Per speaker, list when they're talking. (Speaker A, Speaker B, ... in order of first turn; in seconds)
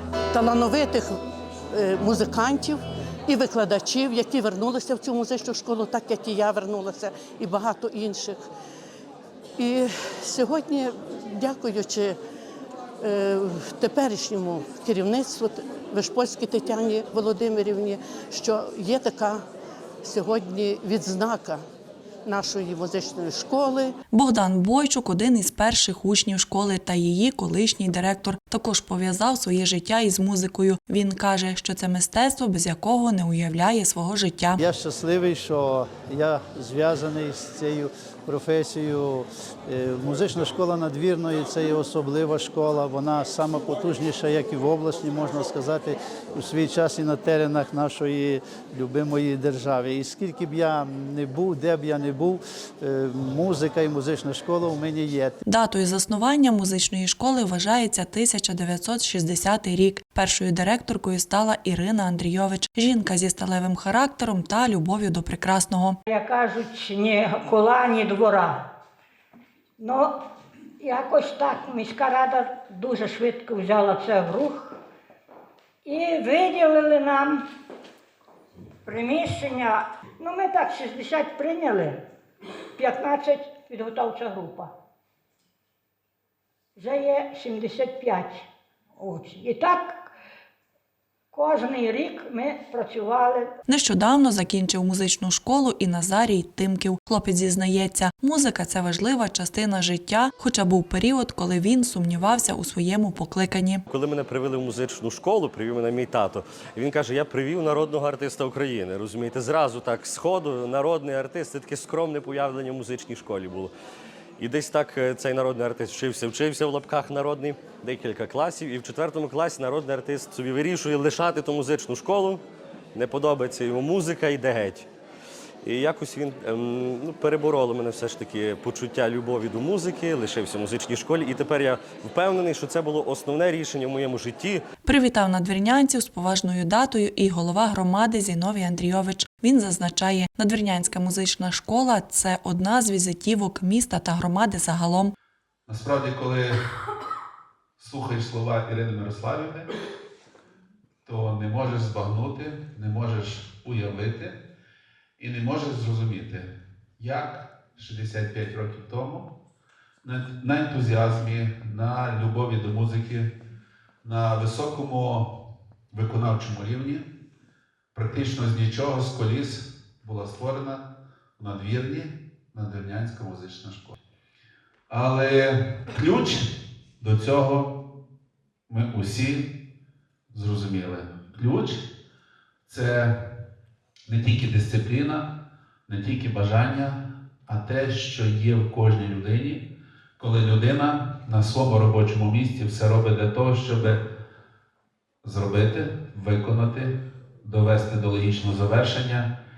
Speaker A: 0.3-1.2, 1.7-8.4, 9.6-12.2, 13.0-19.4, 20.0-21.6, 22.2-23.9
Speaker B: 24.1-34.6, 55.5-66.0, 93.7-103.8, 134.8-145.1
Speaker C: 34.6-55.4
Speaker D: 66.1-68.6, 69.8-70.1, 70.8-74.8, 75.8-77.4, 78.8-82.0, 82.8-84.7, 86.8-90.1, 91.3-93.5
Speaker E: 103.9-113.7, 114.4-122.4, 122.9-124.9, 125.6-134.6
Speaker F: 145.7-146.6, 147.8-149.7, 151.0-154.4, 155.2-159.3, 160.0-163.3, 164.0-165.4, 165.9-167.1, 167.9-174.0, 174.9-177.8, 178.7-179.6, 180.3-181.9, 182.7-183.1, 184.1-185.3, 185.9-189.7, 190.2-194.0, 195.2-199.3